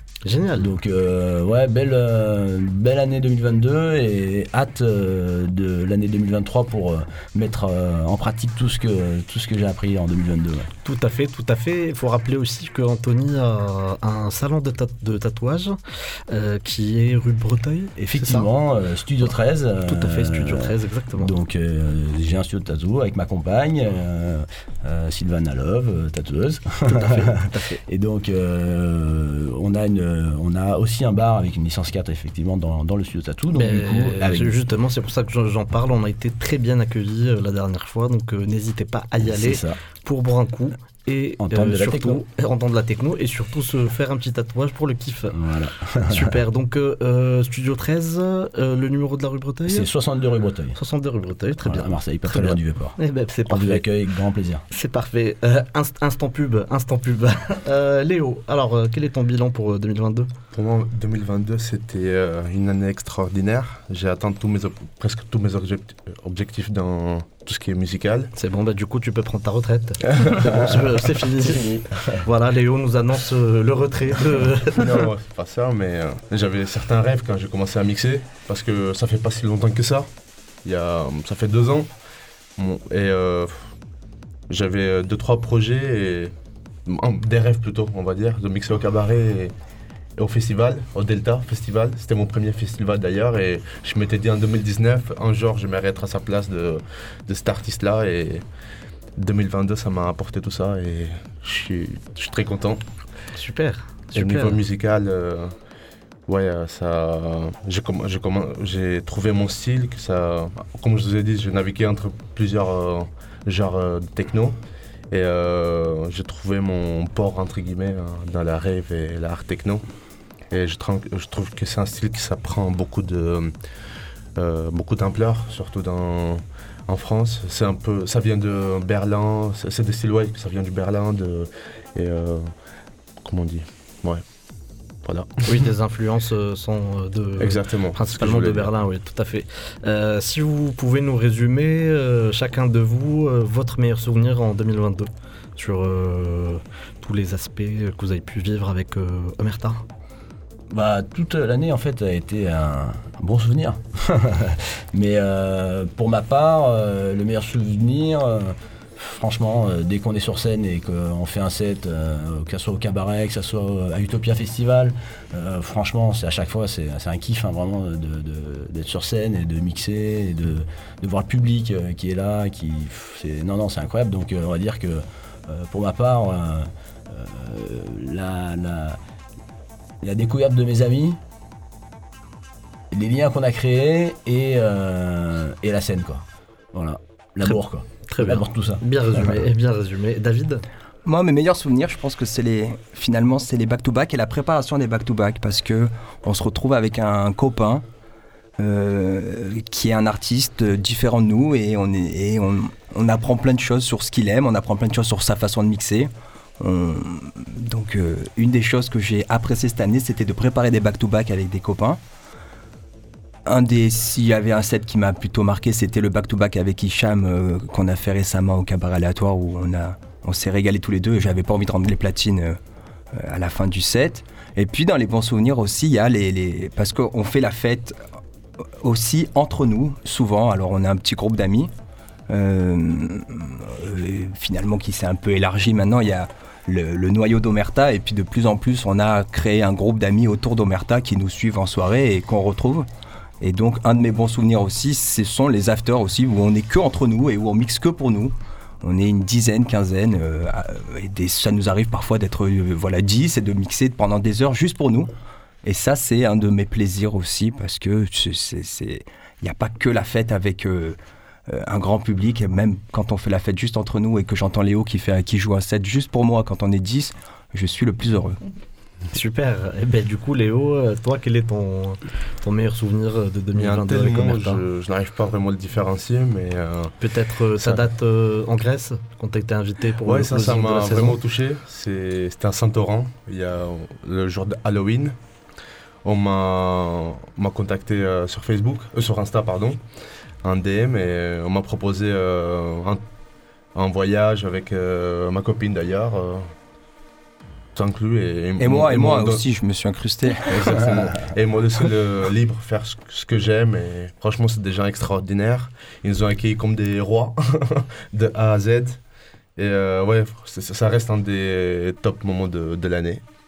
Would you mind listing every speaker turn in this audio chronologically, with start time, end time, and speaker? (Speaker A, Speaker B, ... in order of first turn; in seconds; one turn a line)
Speaker A: 0.2-0.7
Speaker B: 0.6-10.7
Speaker A: 10.8-18.5
Speaker B: 18.0-34.6
Speaker A: 19.9-21.3
Speaker A: 26.9-27.8
Speaker A: 33.5-45.4
Speaker B: 39.2-39.8
Speaker B: 41.4-42.2
Speaker B: 45.3-46.4
Speaker A: 46.0-49.9
Speaker B: 49.7-50.8
Speaker A: 50.8-53.9
Speaker B: 51.6-53.0
Speaker B: 53.5-54.6
Speaker A: 54.7-60.3
Speaker C: 60.5-68.3
Speaker A: 68.4-75.1
Speaker B: 71.4-72.2
Speaker C: 74.8-80.1
Speaker C: 80.6-81.9
Speaker C: 82.6-83.7
Speaker C: 84.5-86.3
Speaker C: 86.9-89.5
Speaker C: 90.2-98.5
Speaker C: 99.2-102.8
Speaker A: 103.3-104.6
Speaker C: 104.1-105.5
Speaker C: 106.3-114.6
Speaker C: 115.1-119.9
Speaker C: 120.5-123.5
Speaker C: 124.4-132.5
Speaker C: 133.2-134.2
Speaker C: 135.1-135.4
Speaker A: 135.4-149.8
Speaker C: 137.4-138.7
Speaker B: 150.7-179.0
Speaker B: 180.0-181.2
Speaker B: 182.9-189.4
Speaker A: 188.1-190.6
Speaker D: 191.1-197.8
Speaker D: 198.6-212.0
Speaker D: 213.5-222.6
Speaker D: 223.1-228.0
Speaker D: 228.8-231.7
Speaker D: 232.3-242.9
Speaker D: 243.4-255.1
Speaker D: 255.6-268.4
Speaker A: 269.1-274.6
Speaker C: 273.6-277.0
Speaker A: 277.0-281.2
Speaker C: 280.1-285.2
Speaker C: 286.0-289.8
Speaker C: 290.4-293.0
Speaker C: 293.8-296.5
Speaker C: 297.8-299.4
Speaker D: 298.6-300.8
Speaker C: 300.4-309.0
Speaker C: 309.6-313.2